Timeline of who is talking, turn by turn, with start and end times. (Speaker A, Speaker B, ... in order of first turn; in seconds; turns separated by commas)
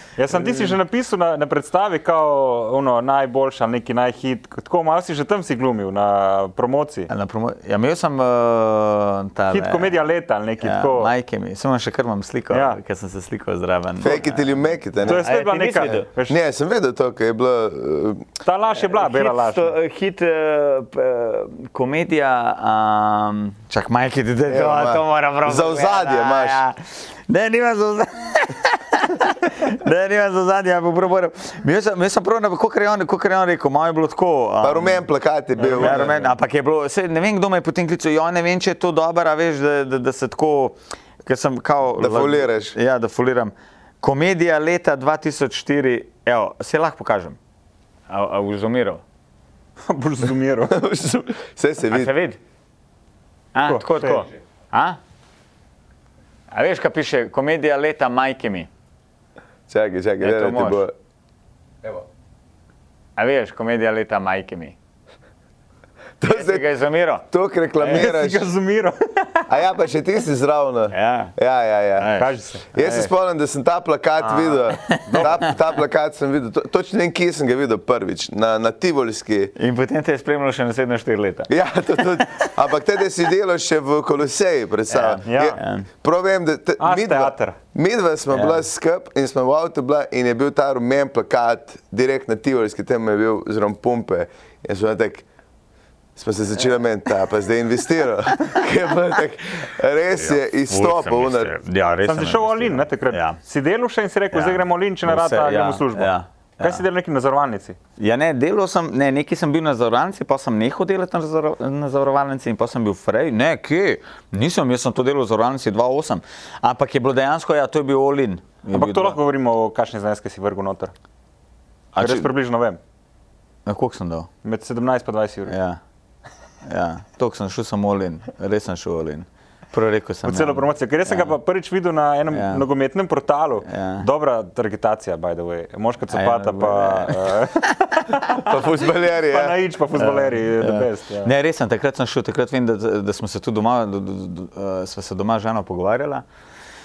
Speaker A: 0.2-7.1, Speaker B: 0.3-0.8, Speaker B: 7.1-10.0, Speaker A: 9.5-11.1, Speaker B: 10.6-14.5, Speaker A: 12.5-12.8, Speaker C: 14.0-15.3, Speaker B: 15.0-16.1, Speaker A: 15.0-16.4, Speaker C: 15.8-18.3, Speaker A: 18.4-19.8, Speaker B: 18.7-35.0, Speaker C: 24.5-26.6, Speaker C: 34.6-36.1, Speaker A: 35.5-36.3, Speaker B: 35.7-47.4, Speaker C: 42.0-42.8, Speaker B: 48.1-49.0, Speaker A: 49.9-50.7, Speaker C: 50.7-52.1, Speaker B: 51.9-52.4, Speaker B: 53.5-55.0, Speaker A: 53.6-54.3, Speaker B: 56.5-58.7, Speaker C: 59.7-60.9, Speaker B: 60.2-60.9, Speaker B: 63.2-64.7, Speaker C: 66.2-66.7, Speaker B: 66.3-67.2, Speaker C: 67.3-68.5, Speaker A: 67.8-69.5, Speaker C: 69.5-72.1, Speaker B: 70.9-71.3, Speaker B: 72.0-72.4, Speaker A: 72.2-73.1, Speaker C: 72.7-79.5, Speaker A: 74.2-75.4, Speaker B: 74.8-75.4, Speaker B: 79.5-81.5, Speaker C: 81.5-95.2, Speaker B: 84.9-85.8, Speaker A: 85.2-85.6, Speaker A: 86.8-87.6, Speaker B: 88.3-88.6, Speaker C: 96.2-101.5, Speaker B: 100.2-103.4, Speaker A: 102.0-107.8, Speaker B: 104.3-106.8, Speaker B: 108.0-119.2, Speaker A: 118.7-120.9, Speaker B: 121.9-122.3, Speaker A: 122.0-122.8, Speaker B: 123.7-124.3, Speaker A: 124.4-125.5, Speaker B: 125.5-125.8, Speaker B: 126.7-131.3, Speaker A: 130.2-138.6, Speaker B: 132.3-132.6, Speaker B: 133.7-134.1, Speaker B: 136.1-138.2, Speaker C: 138.3-139.6, Speaker A: 139.1-141.3, Speaker B: 139.9-146.2